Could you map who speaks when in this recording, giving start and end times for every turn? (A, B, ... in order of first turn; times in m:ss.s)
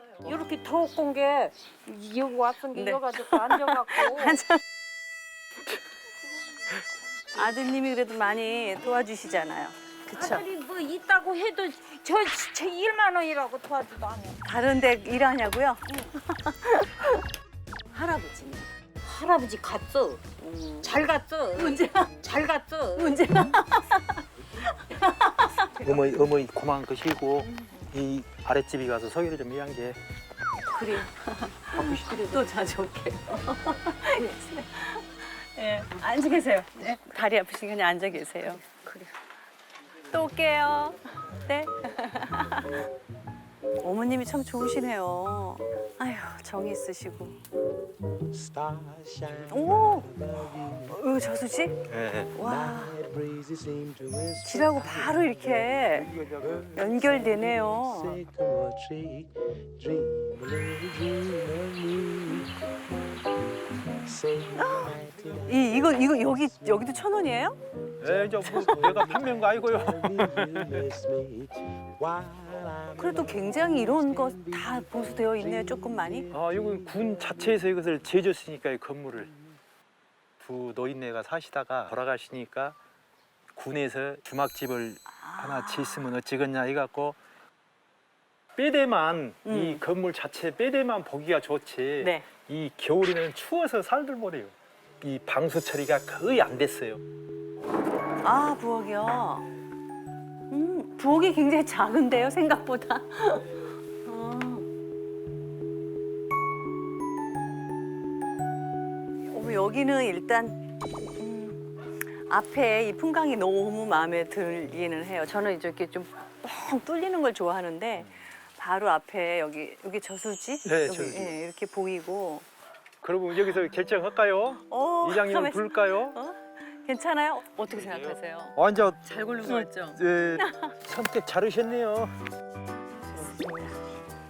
0:00.2-0:04.5 A
0:02.7-0:04.6 B
0:07.3-0:10.4 B
0:10.1-0:14.4 A
0:14.4-0:17.2 B
0:17.9-0:18.7 B
0:19.0-0:20.2 A
0:20.4-0:20.9 B
0:20.8-0:23.2 A
0:21.6-0:22.2 B
0:23.0-0:24.2 B
0:24.8-0:25.7 B
0:25.8-0:30.0 C
0:27.5-0:27.8 B
0:30.7-0:39.1 B
0:31.7-0:32.4 C
0:40.1-0:42.8 B
0:43.8-0:47.4 B
0:49.5-0:51.8 B
0:51.9-0:52.3 C
0:52.3-0:53.0 B
0:54.3-0:58.3 B
0:56.0-0:57.0 C
1:04.5-1:07.6 B
1:08.0-1:11.0 C
1:12.9-1:16.3 B
1:16.3-1:19.3 C
1:20.4-1:22.8 C
1:23.5-1:27.2 C
1:25.2-1:26.1 B
1:28.6-1:37.0 C
1:29.4-1:29.8 B
1:32.0-1:32.2 B
1:38.2-1:39.4 B
1:40.5-1:44.7 B
1:49.3-1:51.6 B
1:52.2-2:02.4 B
2:00.6-2:01.4 C
2:03.0-2:06.2 C
2:04.7-2:10.7 B
2:07.7-2:12.1 C
2:13.1-2:13.7 B